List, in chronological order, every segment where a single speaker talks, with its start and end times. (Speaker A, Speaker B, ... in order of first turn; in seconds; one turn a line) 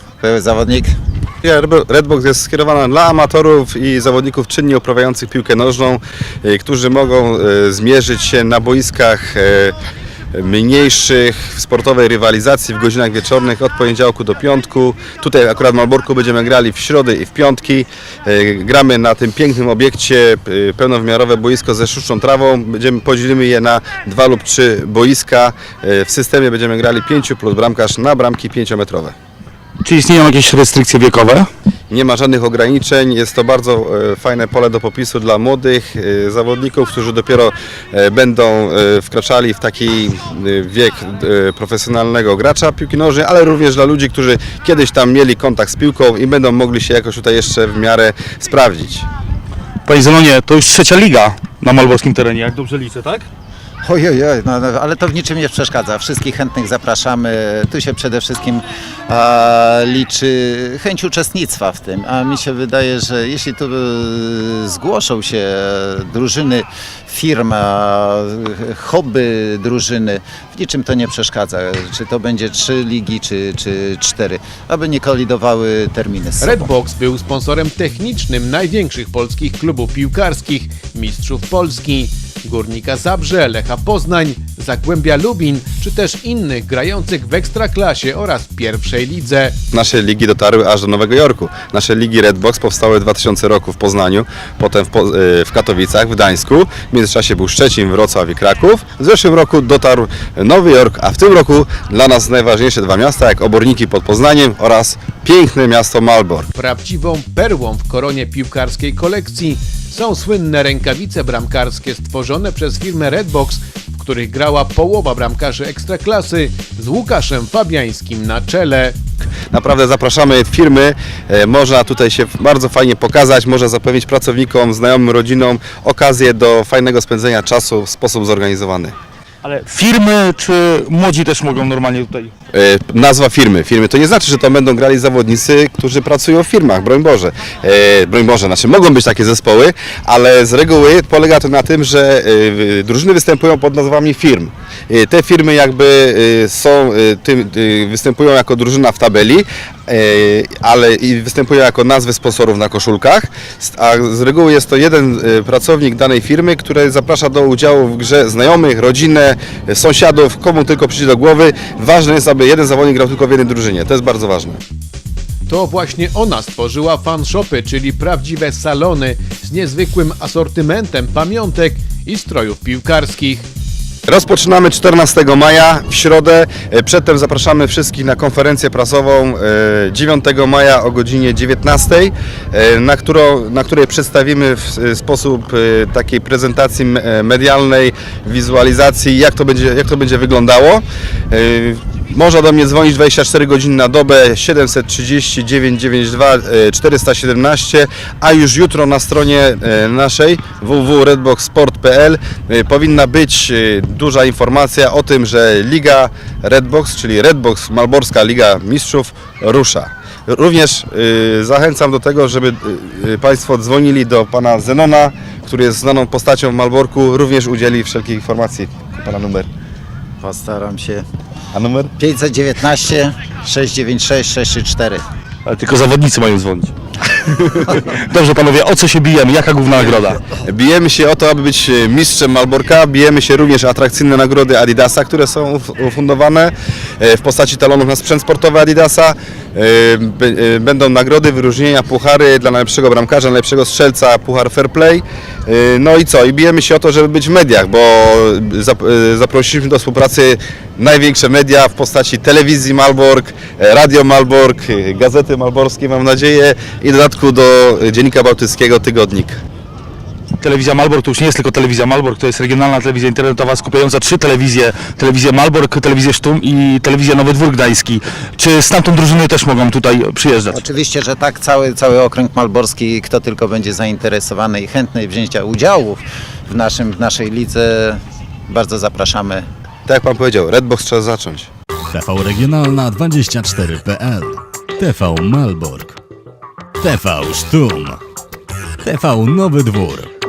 Speaker A: 0.2-0.9
Speaker B: 1.4-9.7
Speaker B: 10.3-29.1
Speaker C: 29.8-31.5
Speaker B: 31.9-49.1
Speaker C: 49.9-53.3
Speaker A: 53.8-76.7
Speaker D: 76.4-89.5
Speaker B: 89.7-106.5
Speaker D: 106.5-119.0
Speaker B: 119.5-128.9
Speaker C: 129.4-132.3
Speaker B: 132.5-164.6
Speaker D: 165.5-173.4
Speaker B: 174.1-219.5
Speaker A: 220.2-221.0
Speaker B: 221.5-221.9
Speaker A: 222.0-225.0
Speaker C: 225.4-230.3
Speaker B: 230.3-259.4
Speaker C: 260.4-270.6
Speaker A: 270.5-279.4
Speaker B: 279.9-281.5
Speaker E: 281.9-286.0
Speaker E: 286.8-288.0
Speaker E: 288.8-290.1